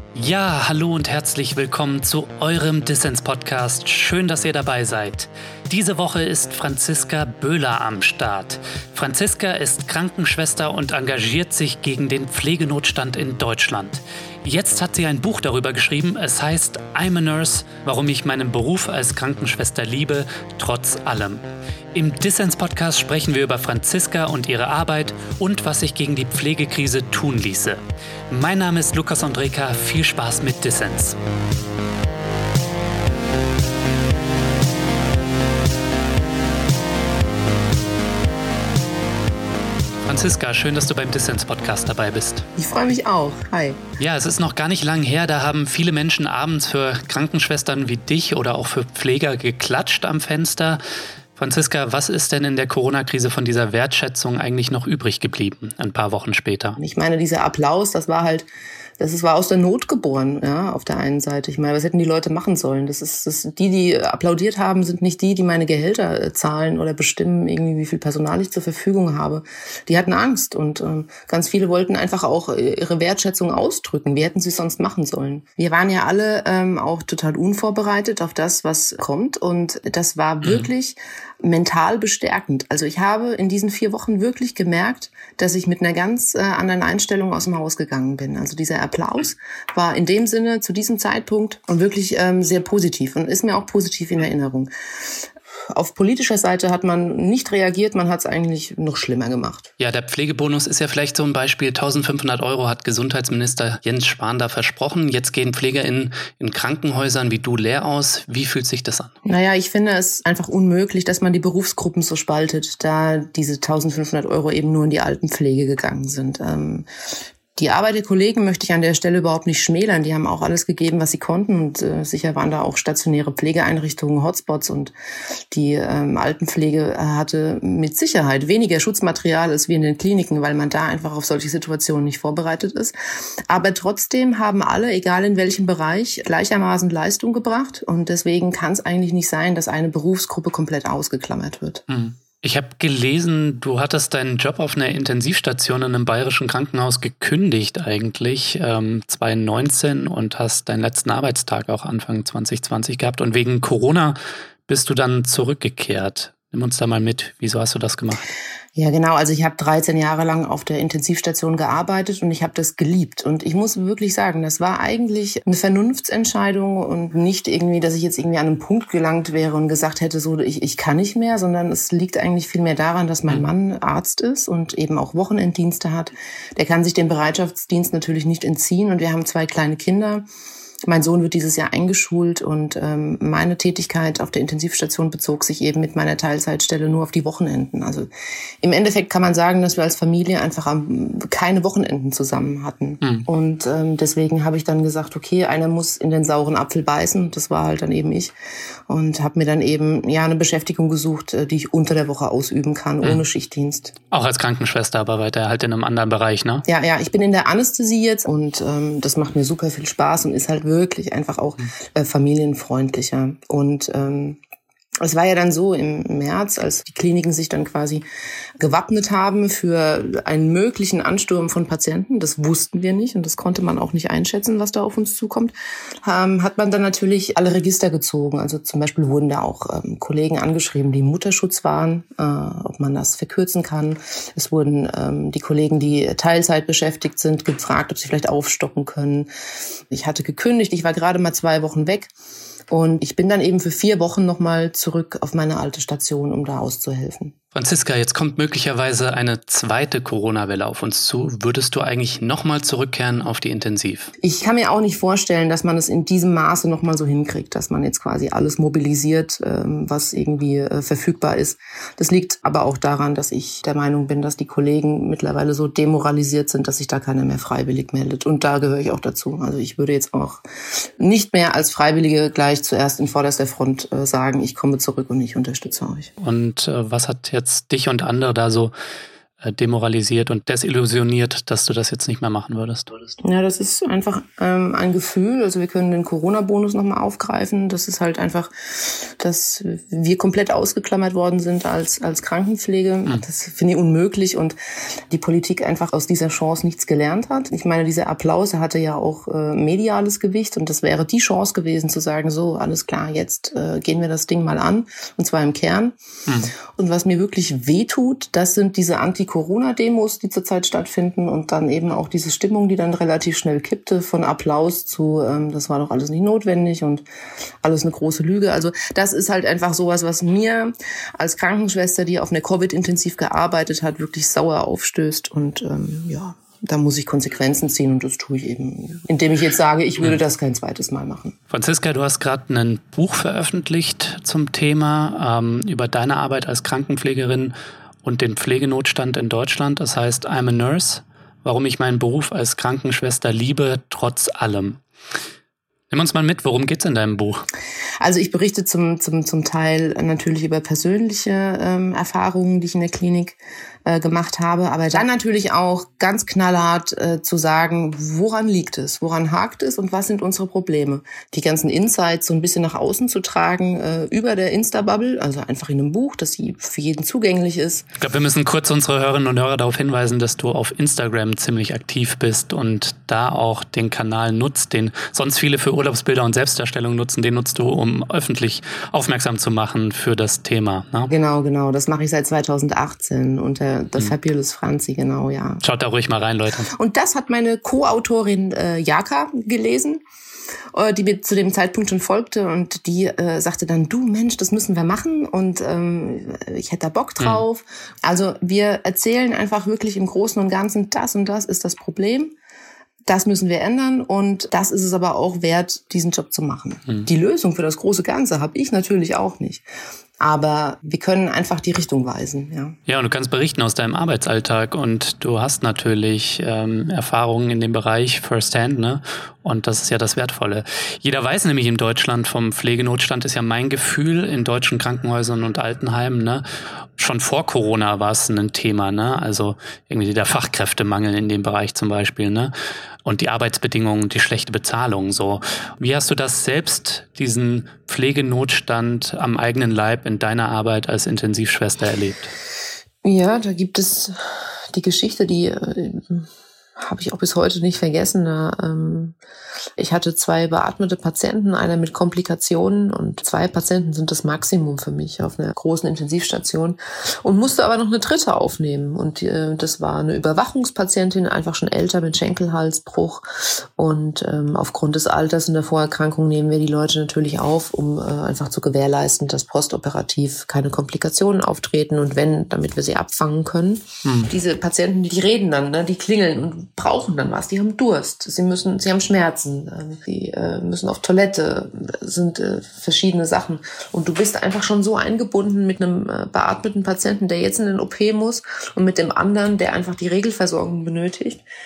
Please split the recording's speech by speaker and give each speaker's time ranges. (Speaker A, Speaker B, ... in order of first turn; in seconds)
Speaker A: 0.1-31.2, 40.0-42.5, 44.0-50.8, 51.4-56.8, 80.4-80.7, 99.8-109.1, 141.9-154.2, 154.7-158.3, 204.1-206.6, 247.5-254.1, 276.2-278.7, 279.4-282.9, 331.5-337.5, 338.0-344.8, 345.9-347.4, 368.0-381.1, 385.6-386.7, 412.9-426.4, 427.0-432.5, 433.0-442.3, 474.0-474.3
Speaker B: 42.5-43.8, 56.8-58.5, 59.0-99.7, 109.2-116.9, 117.5-124.9, 125.5-132.9, 133.5-141.8, 158.8-180.2, 180.8-188.1, 188.6-198.3, 198.9-203.9, 206.7-214.4, 215.0-218.0, 218.6-239.3, 239.9-242.1, 242.7-247.3, 254.2-276.1, 283.2-294.5, 295.1-305.9, 306.7-317.0, 317.6-331.3, 348.0-367.9, 381.1-385.6, 386.7-390.0, 390.7-402.3, 403.1-409.6, 410.2-412.8, 443.0-449.1, 449.8-491.4